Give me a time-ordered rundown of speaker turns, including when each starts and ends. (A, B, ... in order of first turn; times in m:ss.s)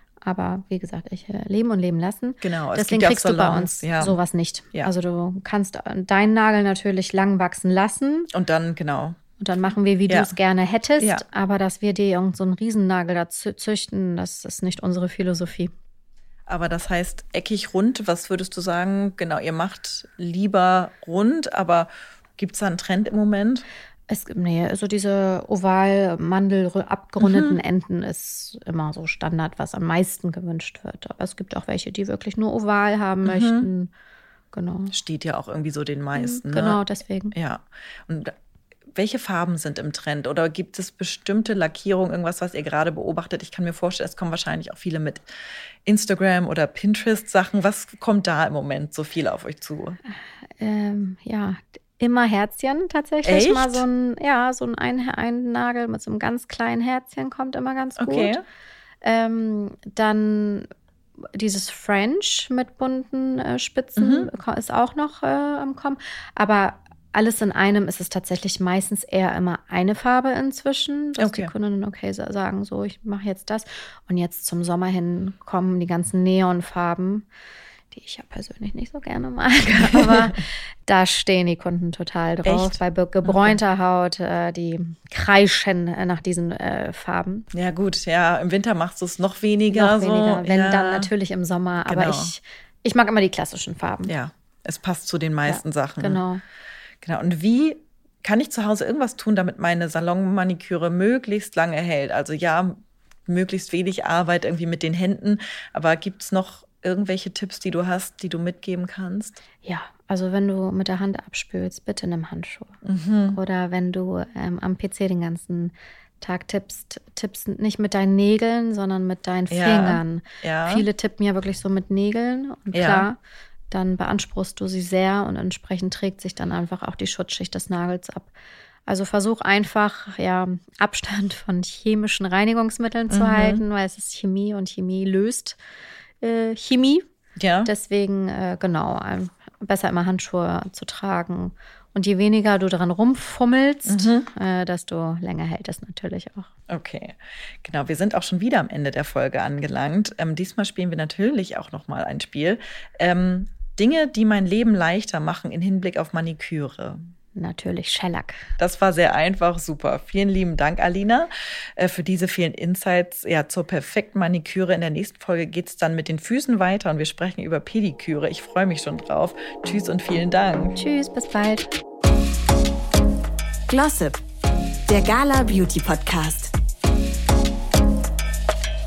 0:00.2-0:08.3 A
0:02.4-0:04.2 B
0:08.3-0:09.2 B
0:09.4-0:15.7 A
0:11.0-0:11.2 B
0:16.5-0:23.6 B
0:24.1-0:33.9 A
0:27.2-0:27.6 B
0:33.2-0:33.7 B
0:34.5-0:35.0 A
0:34.9-0:36.8 B
0:36.2-0:37.4 A
0:37.3-0:38.3 B
0:39.0-0:45.2 B
0:45.8-0:50.0 B
0:50.6-0:58.4 A
0:53.2-0:53.8 B
0:58.0-0:58.4 B
0:59.0-1:00.7 A
1:01.3-1:17.3 A
1:04.0-1:04.3 B
1:11.2-1:11.5 B
1:17.9-1:27.4 A
1:22.4-1:23.6 B
1:27.5-1:31.1 B
1:29.7-1:34.1 A
1:31.8-1:32.4 B
1:34.1-1:36.2 B
1:35.5-1:36.4 A
1:37.0-1:49.4 B
1:49.6-1:52.8 A
1:52.8-1:53.4 B
1:53.3-2:03.2 A
1:59.5-2:00.9 B
2:02.7-2:03.1 B
2:03.7-2:08.3 A
2:08.9-2:15.6 A
2:13.1-2:13.6 B
2:16.2-2:17.0 A
2:17.4-2:17.7 B
2:17.6-2:26.5 A
2:23.9-2:24.3 B
2:26.7-2:37.0 B
2:37.4-2:38.5 A
2:38.6-2:50.8 B
2:50.8-2:51.7 A
2:53.7-2:54.2 C
2:54.9-2:56.5 C